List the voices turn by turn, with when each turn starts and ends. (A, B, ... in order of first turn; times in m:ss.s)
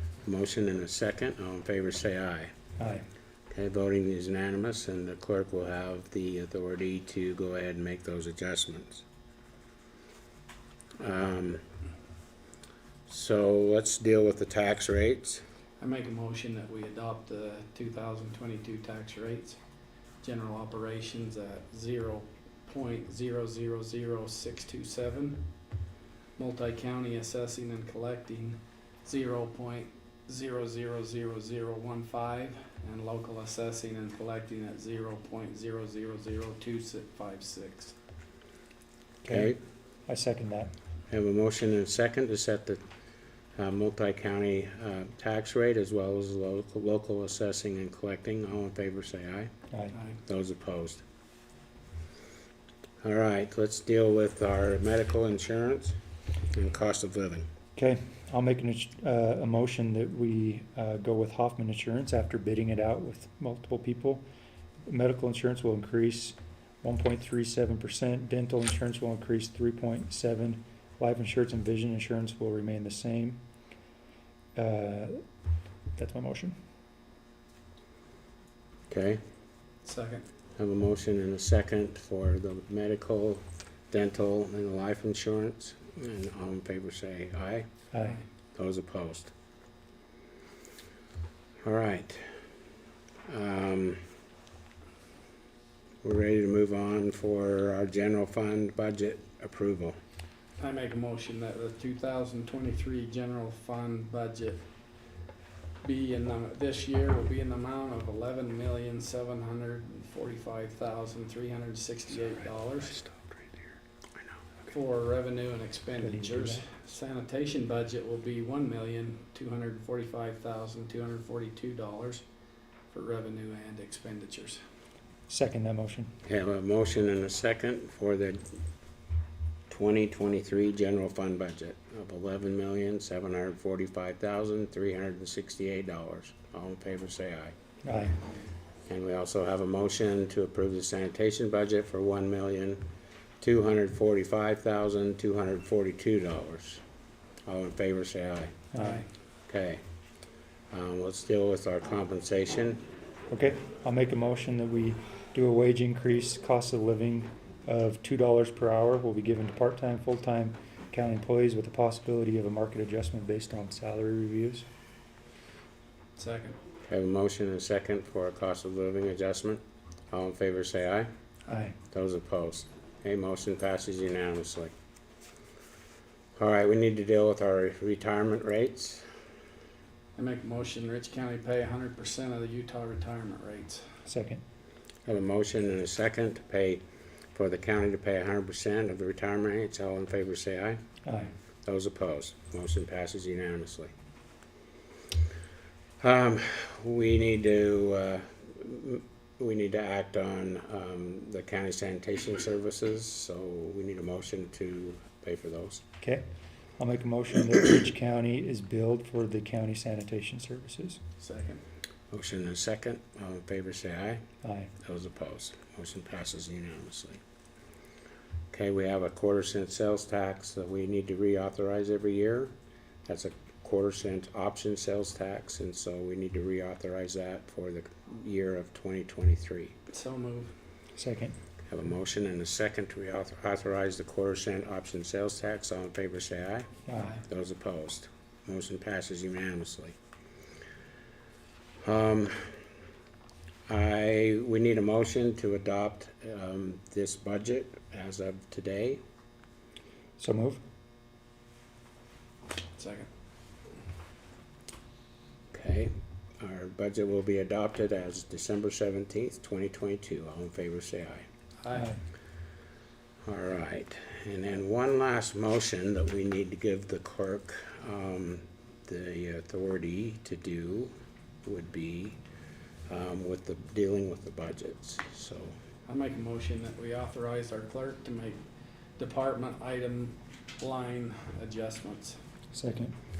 0:00.2-0:02.5 A
0:02.8-0:03.0 B
0:03.5-0:09.0 A
0:11.0-0:11.6 A
0:13.1-0:15.4 A
0:15.8-0:19.6 C
0:20.2-0:25.5 C
0:26.4-0:38.0 C
0:39.2-0:40.7 B
0:39.3-0:39.6 A
0:41.1-0:42.8 A
0:43.6-0:49.5 A
0:49.7-0:50.0 B
0:50.3-0:51.0 A
0:53.0-0:56.0 A
0:56.5-0:57.5 A
0:57.8-1:04.2 B
1:04.9-1:13.4 B
1:14.6-1:15.2 B
1:16.0-1:16.5 B
1:18.9-1:19.2 A
1:19.8-1:20.3 C
1:20.6-1:27.7 A
1:27.9-1:28.2 B
1:28.6-1:29.3 A
1:31.6-1:32.3 A
1:33.2-1:34.0 A
1:36.0-1:40.0 A
1:40.6-1:44.6 C
1:45.8-1:53.0 C
1:52.8-1:53.7 A
1:54.7-2:02.2 C
1:56.0-1:56.7 B
2:02.9-2:04.6 C
2:05.3-2:06.2 B
2:06.2-2:08.5 A
2:09.7-2:17.6 A
2:17.8-2:18.2 B
2:18.9-2:22.8 A
2:23.4-2:26.8 A
2:27.5-2:28.6 A
2:28.7-2:29.0 B
2:28.7-2:29.0 C
2:29.5-2:29.8 A
2:30.7-2:32.8 A
2:33.3-2:44.6 B
2:46.2-2:46.6 C
2:46.9-2:51.1 A
2:51.5-2:51.7 B
2:51.9-2:54.7 A
2:56.4-2:59.1 A
3:00.2-3:03.9 C
3:04.1-3:04.4 B
3:05.1-3:06.8 A
3:07.3-3:10.8 A
3:11.0-3:11.3 B
3:11.6-3:13.9 A
3:16.0-3:25.8 A
3:26.8-3:31.0 B
3:31.2-3:31.6 C
3:32.1-3:34.2 A
3:34.4-3:34.7 B
3:34.8-3:37.2 A
3:38.5-3:42.5 A
3:43.1-3:49.8 A
3:49.9-3:50.5 C
3:51.0-3:51.4 B
3:51.7-3:56.7 A
3:56.9-3:57.2 B
3:57.2-4:00.0 A
4:01.8-4:02.5 A
4:03.7-4:09.0 A
4:10.2-4:10.6 B
4:12.8-4:13.1 C
4:15.5-4:21.3 A
4:21.6-4:21.9 C
4:21.7-4:22.0 B
4:23.3-4:30.9 A
4:31.4-4:32.2 A
4:32.9-4:35.5 A
4:35.9-4:38.4 C
4:39.0-4:42.2 C
4:42.5-4:42.9 B